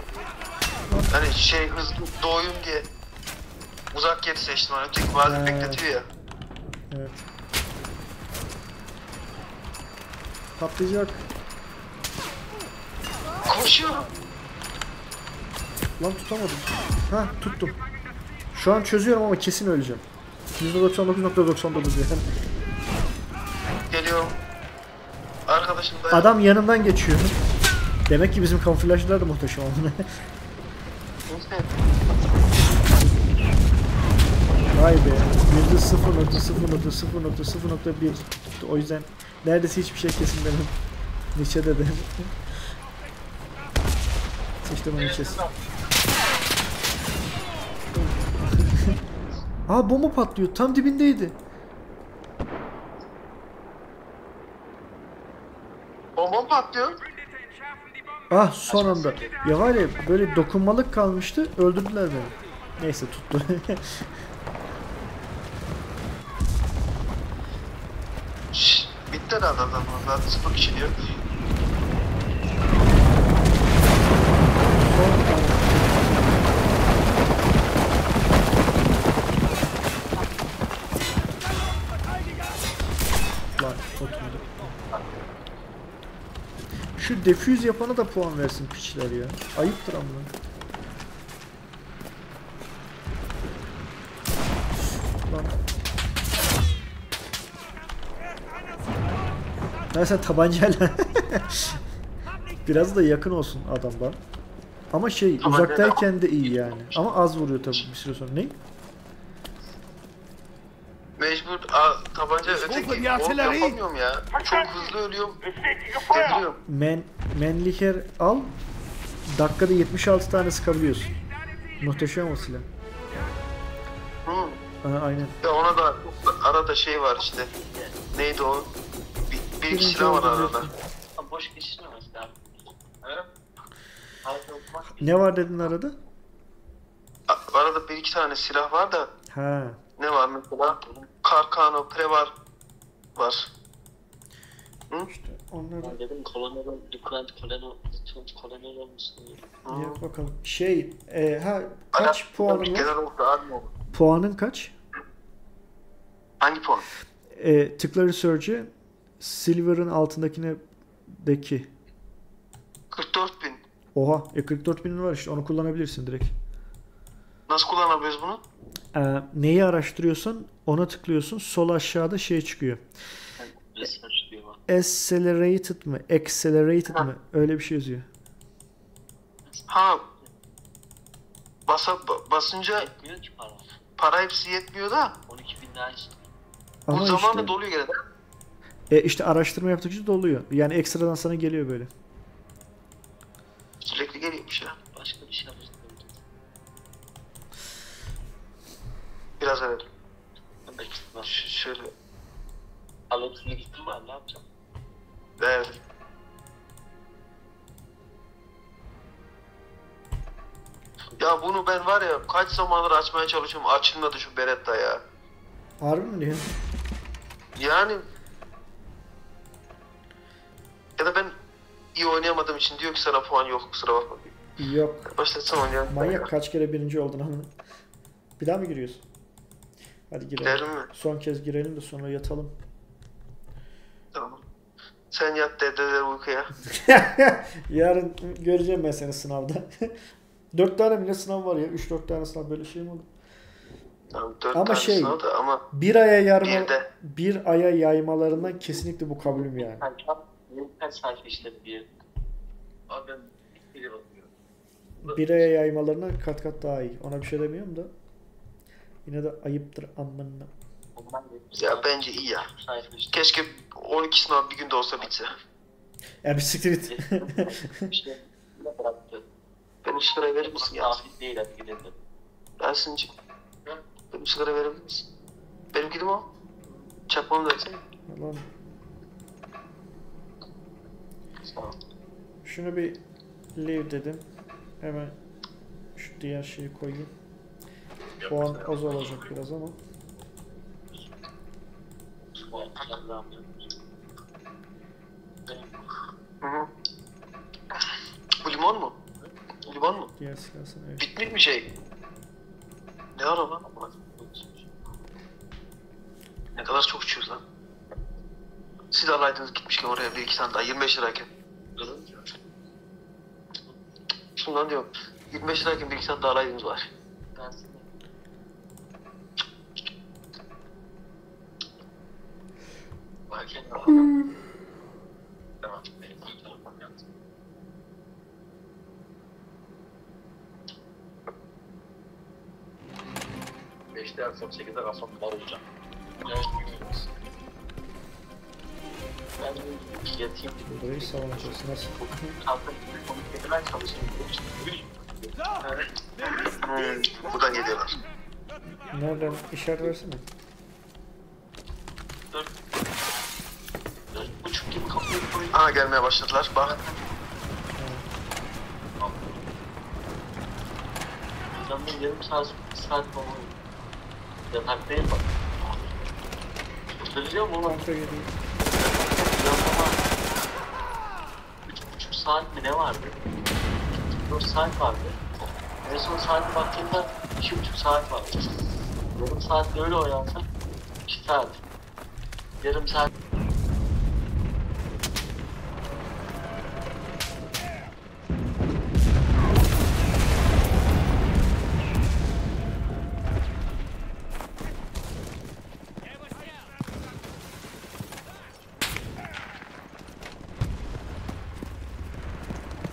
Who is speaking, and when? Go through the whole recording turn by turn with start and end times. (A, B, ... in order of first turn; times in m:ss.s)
0:00.9-0:01.1 A
0:01.1-0:02.9 B
0:03.9-0:06.0 B
0:05.2-0:05.8 A
0:06.9-0:07.2 A
0:10.6-0:11.2 A
0:13.4-0:14.1 B
0:16.0-0:17.8 A
0:18.5-0:20.0 A
0:20.6-0:22.3 A
0:23.9-0:24.4 B
0:25.5-0:26.3 B
0:26.1-0:27.4 A
0:28.1-0:30.2 A
0:31.3-0:31.7 B
0:34.7-0:40.7 A
0:41.3-0:42.4 A
0:44.6-0:45.4 A
0:47.9-0:48.9 A
0:49.7-0:51.4 A
0:56.2-0:57.0 B
0:58.3-1:04.1 A
0:58.7-0:59.7 C
1:08.5-1:10.9 B
1:14.7-1:16.5 A
1:23.6-1:24.8 A
1:27.0-1:30.3 A
1:34.9-1:35.6 A
1:39.9-1:41.8 A
1:42.6-1:44.2 A
1:44.9-1:48.6 A
1:45.4-1:46.0 B
1:51.2-1:56.6 B
1:56.7-1:58.5 A
1:59.3-2:01.2 A
2:01.8-2:02.6 A
2:04.2-2:04.6 B
2:04.8-2:05.4 A
2:05.4-2:07.5 B
2:07.5-2:08.0 C
2:08.1-2:08.7 B
2:09.3-2:10.7 B
2:09.7-2:10.7 A
2:11.2-2:12.3 C
2:14.2-2:15.2 C
2:14.9-2:15.9 A
2:17.3-2:19.1 B
2:19.3-2:19.8 A
2:20.0-2:22.3 B
2:23.1-2:23.5 B
2:25.1-2:26.0 A
2:25.8-2:29.4 C
2:29.6-2:30.0 B
2:29.7-2:32.9 A
2:31.9-2:33.7 B
2:33.9-2:34.7 A
2:36.4-2:36.8 B
2:37.3-2:41.7 A
2:42.9-2:43.6 B
2:43.9-2:46.3 A
2:47.5-2:48.4 B
2:48.9-2:52.9 A
2:53.4-2:54.6 C
2:54.7-2:58.1 A
2:59.7-3:00.0 B
3:01.7-3:02.9 B
3:02.8-3:03.6 C
3:04.0-3:05.1 B
3:05.3-3:06.2 C
3:06.9-3:07.5 A
3:06.9-3:08.0 B
3:08.9-3:11.9 A
3:13.8-3:14.8 B
3:14.9-3:16.1 C
3:19.4-3:19.8 B
3:20.7-3:21.3 C
3:21.2-3:21.9 B
3:23.1-3:24.4 C
3:25.4-3:25.8 B
3:31.2-3:35.0 B
3:35.8-3:36.6 A
3:37.6-3:38.0 B
3:41.0-3:41.3 B
3:41.9-3:44.4 B
3:44.6-3:45.1 A
3:45.1-3:46.3 B
3:45.9-3:47.5 A
3:48.4-3:49.0 A
3:50.1-3:52.5 A
3:50.4-3:50.9 B
3:54.1-3:54.4 B
3:55.1-3:56.5 B
3:56.7-3:59.9 A
4:00.5-4:03.1 A
4:04.1-4:05.6 B
4:04.5-4:05.2 A
4:05.7-4:09.8 A
4:06.4-4:06.8 B
4:09.5-4:11.9 C
4:12.9-4:14.1 B
4:13.7-4:14.1 C
4:15.0-4:17.9 A
4:19.0-4:20.5 A
4:21.0-4:22.0 C
4:21.6-4:22.5 B
4:22.5-4:23.5 C
4:23.1-4:25.3 B
4:26.2-4:27.9 A
4:26.9-4:29.2 C
4:29.8-4:31.0 B
4:30.4-4:32.0 C
4:32.6-4:33.1 B
4:34.1-4:35.0 B
4:35.7-4:36.3 B
4:37.1-4:37.8 B
4:38.1-4:38.4 A
4:42.4-4:43.0 A
4:43.6-4:44.2 A
4:44.8-4:45.1 A
4:46.0-4:47.1 A
4:48.2-4:49.8 A
4:52.4-4:53.5 C
4:55.5-4:55.9 C
4:56.4-4:56.7 B
4:58.4-4:59.0 B
4:59.6-5:00.1 B
5:00.2-5:01.1 A
5:01.0-5:01.7 B
5:03.1-5:03.9 B
5:04.1-5:04.6 C
5:06.6-5:07.4 B
5:08.9-5:11.3 B
5:11.8-5:12.2 C
5:14.4-5:16.9 B
5:17.3-5:17.8 C
5:23.3-5:24.1 C
5:25.6-5:27.0 C
5:33.9-5:35.6 C
5:36.2-5:37.0 C
5:39.4-5:41.4 C
5:40.6-5:42.3 A
5:42.4-5:46.4 C
5:46.6-5:48.0 B
5:48.9-5:50.3 A
5:54.1-5:55.6 C
5:55.5-5:56.8 B
5:57.8-5:58.1 A
5:59.0-5:59.4 C
6:01.6-6:03.6 C
6:04.5-6:05.4 C
6:07.0-6:07.9 C
6:07.6-6:08.3 A
6:08.8-6:10.1 C
6:11.7-6:13.2 C
6:14.3-6:15.2 C
6:15.8-6:18.4 C
6:19.1-6:20.4 C
6:21.1-6:21.6 C
6:22.6-6:23.1 C